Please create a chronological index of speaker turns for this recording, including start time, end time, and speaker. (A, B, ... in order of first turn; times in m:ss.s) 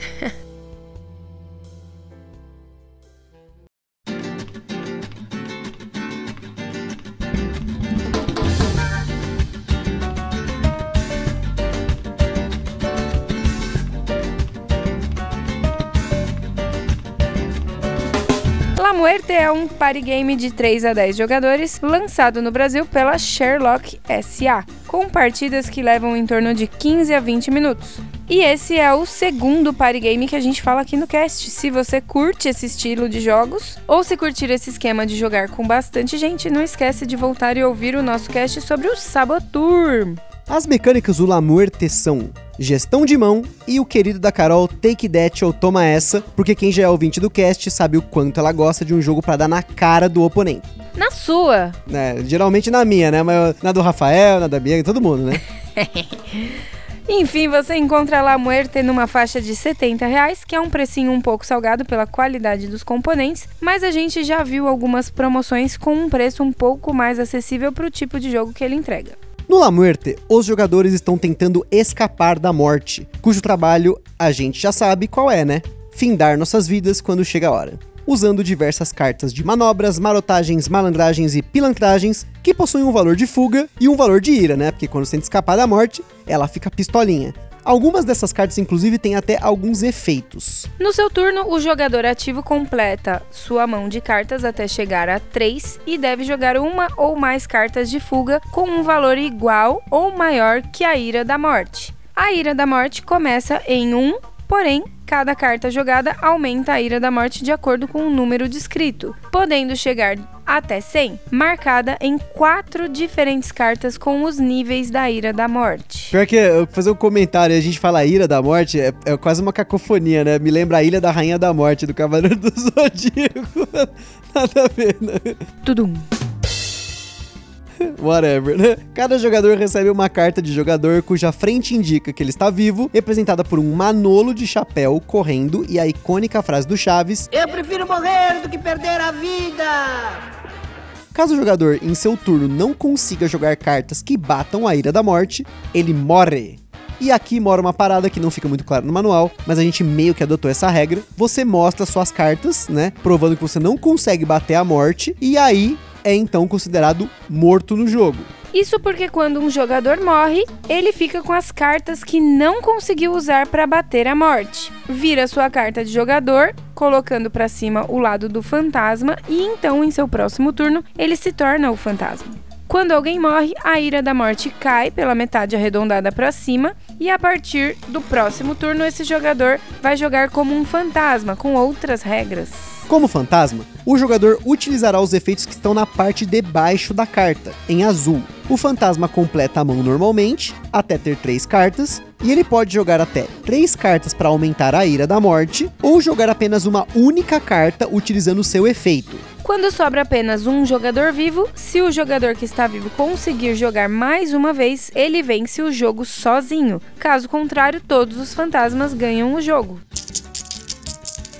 0:18.8-0:40.2 A
0:40.5-0:50.6 B
0:51.0-0:51.8 A
0:51.9-0:55.4 B
0:55.8-1:09.2 A
1:09.5-1:30.7 B
1:30.8-1:56.2 A
1:56.1-2:05.4 B
2:05.6-2:06.0 A
2:07.8-2:17.3 B
2:17.3-2:20.2 C
2:21.1-2:38.3 B
2:38.5-3:02.8 A
3:02.9-3:19.2 B
3:19.4-3:29.8 A